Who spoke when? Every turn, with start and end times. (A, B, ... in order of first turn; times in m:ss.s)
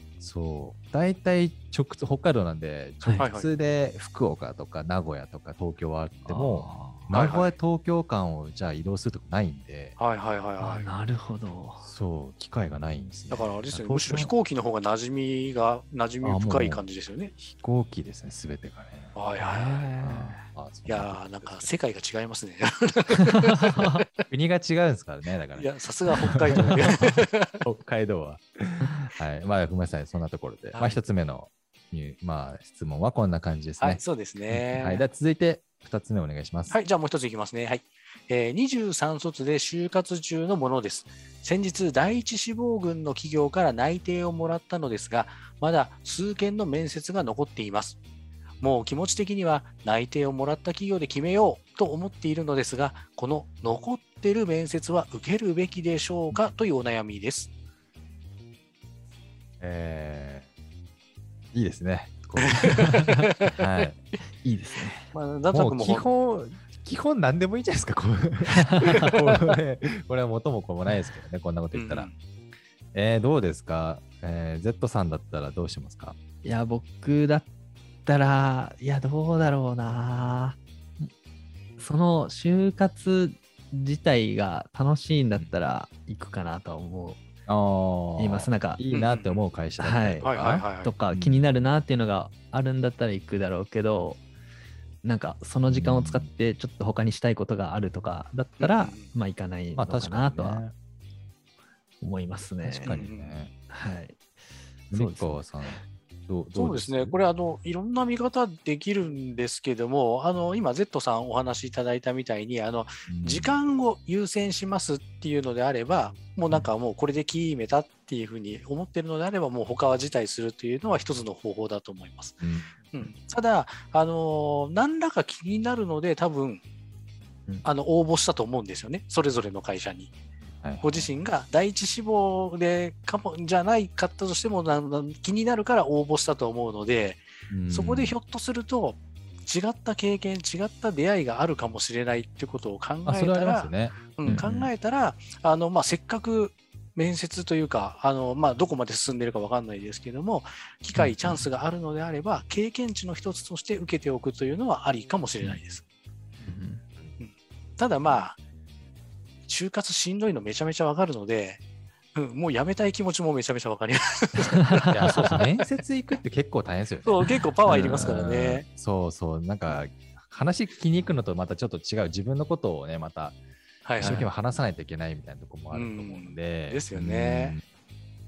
0:00.2-0:10.0 A
0:03.0-0:03.3 B
0:03.2-0:03.5 C
0:06.3-0:07.1 B
0:07.1-0:07.6 C
0:10.0-0:10.9 C
0:10.6-0:11.8 B
0:11.8-0:14.3 A
0:13.3-0:17.3 C
0:16.2-0:19.2 A
0:19.1-0:20.0 C
0:19.4-0:20.4 B
0:20.0-0:21.7 A
0:20.8-0:24.0 C
0:24.3-0:25.7 A
0:25.5-0:27.6 C
0:27.6-0:36.8 A
0:30.7-0:31.0 C
0:33.8-0:35.1 C
0:36.7-0:48.0 C
0:48.6-0:57.5 C
0:59.6-1:00.5 A
1:01.5-1:02.9 A
1:02.5-1:03.5 C
1:03.6-1:04.0 A
1:04.4-1:05.1 B
1:05.1-1:06.0 C
1:05.5-1:12.1 A
1:11.7-1:12.1 C
1:12.9-1:16.2 A
1:16.4-1:17.5 B
1:18.0-1:21.1 B
1:21.8-1:27.2 B
1:27.5-1:31.5 A
1:28.2-1:28.8 B
1:28.9-1:29.4 C
1:29.8-1:30.3 B
1:30.2-1:31.0 C
1:30.8-1:34.2 B
1:35.0-1:40.6 B
1:35.7-1:36.3 A
1:38.6-1:39.1 C
1:39.7-1:40.7 A
1:42.0-1:43.0 B
1:42.7-1:43.4 C
1:42.8-1:43.5 A
1:43.7-1:44.2 B
1:44.9-1:45.8 B
1:44.9-1:47.1 A
1:46.5-2:06.6 C
1:53.1-1:53.6 A
2:02.4-2:03.1 A
2:07.6-2:10.1 C
2:10.6-2:11.1 A
2:10.8-2:35.8 C
2:17.5-2:18.1 A
2:23.0-2:24.0 A
2:24.2-2:24.7 B
2:31.0-2:31.4 B
2:36.4-2:36.8 B
2:37.2-2:38.4 C
2:39.5-2:41.6 C
2:42.1-2:45.4 C
2:44.9-2:53.4 A
2:47.0-2:48.6 C
2:47.6-2:48.2 B
2:53.8-2:54.3 C
2:54.0-2:57.6 A
2:55.7-2:57.6 C